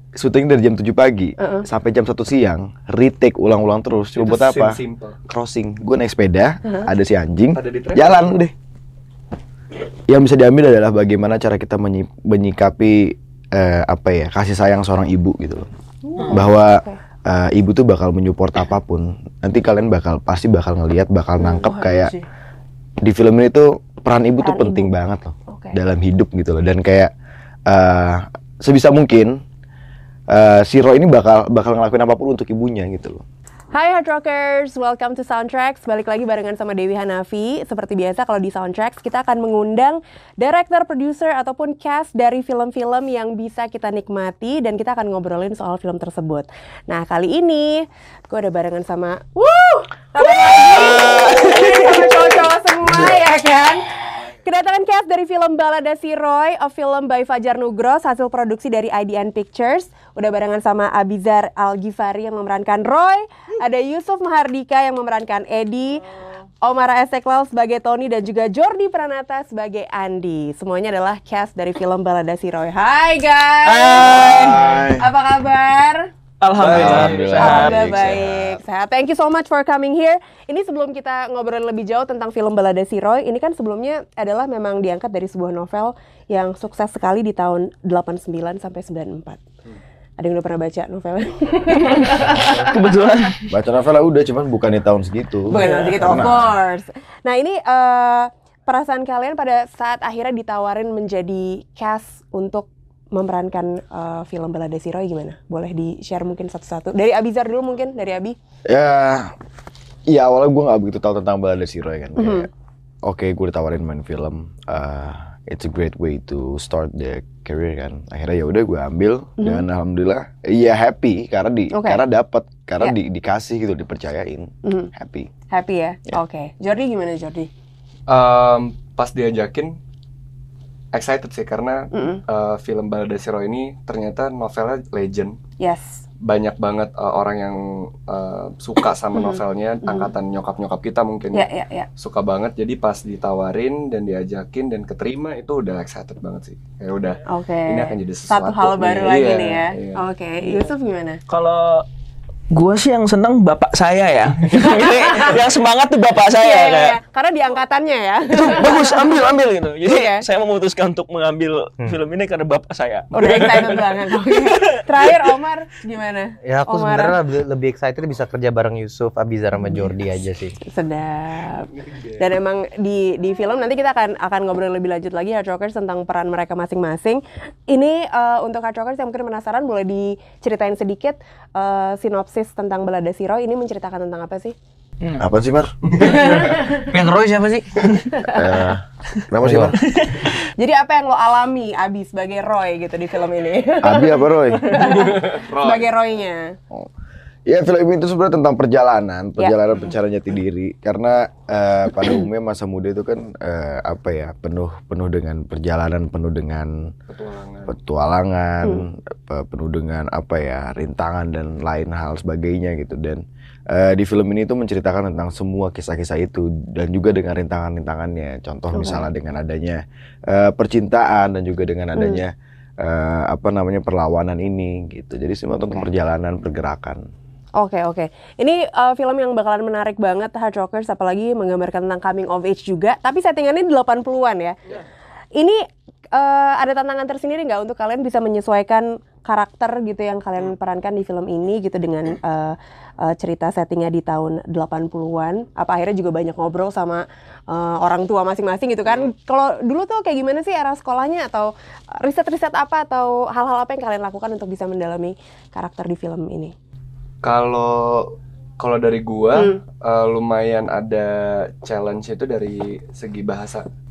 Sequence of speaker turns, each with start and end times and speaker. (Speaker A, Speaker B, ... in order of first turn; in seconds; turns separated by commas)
Speaker A: 0.1-8.5, Speaker B: 1.4-1.7, Speaker C: 4.2-5.2, Speaker C: 7.5-8.2, Speaker A: 10.1-15.7, Speaker B: 16.1-17.0, Speaker D: 16.2-16.4, Speaker A: 16.3-22.1, Speaker D: 21.6-22.2, Speaker A: 23.0-27.1, Speaker B: 24.4-24.9, Speaker B: 25.5-25.8, Speaker A: 27.7-29.4, Speaker A: 30.3-33.2, Speaker B: 33.7-66.1, Speaker D: 51.1-52.1, Speaker B: 66.6-76.1, Speaker A: 73.7-75.1, Speaker D: 76.4-77.9, Speaker C: 76.5-77.6, Speaker A: 76.6-78.6, Speaker B: 77.3-89.4, Speaker B: 90.2-92.8, Speaker D: 92.1-93.4, Speaker A: 93.5-96.5, Speaker B: 95.5-108.4, Speaker D: 95.6-95.9, Speaker A: 108.7-109.3, Speaker A: 110.1-112.5, Speaker B: 112.2-112.5, Speaker A: 113.0-125.3, Speaker B: 119.4-119.6, Speaker B: 121.7-122.0, Speaker B: 124.6-124.9, Speaker B: 125.5-127.5, Speaker C: 128.1-129.8, Speaker C: 130.9-135.4, Speaker B: 131.9-132.2, Speaker B: 135.6-136.0, Speaker C: 136.2-150.0, Speaker B: 139.2-140.1, Speaker B: 141.3-141.9, Speaker B: 147.3-151.2, Speaker D: 151.3-151.8, Speaker D: 152.5-157.0, Speaker B: 154.5-155.4, Speaker B: 156.4-159.1, Speaker D: 158.3-165.1, Speaker B: 159.8-160.3, Speaker B: 163.1-167.2, Speaker E: 166.4-170.6, Speaker B: 170.6-184.6, Speaker C: 171.7-172.2, Speaker A: 185.2-186.3, Speaker B: 186.0-186.9, Speaker E: 186.7-188.0, Speaker B: 187.9-188.6, Speaker A: 188.2-189.8, Speaker E: 189.4-189.8, Speaker D: 189.8-190.3, Speaker B: 190.6-196.6, Speaker A: 193.8-194.7, Speaker C: 194.8-195.9, Speaker A: 197.5-206.9, Speaker C: 207.1-207.7, Speaker A: 207.7-227.0, Speaker B: 218.7-219.1, Speaker B: 222.0-222.2, Speaker B: 227.6-234.6, Speaker B: 235.3-256.5, Speaker C: 257.2-263.7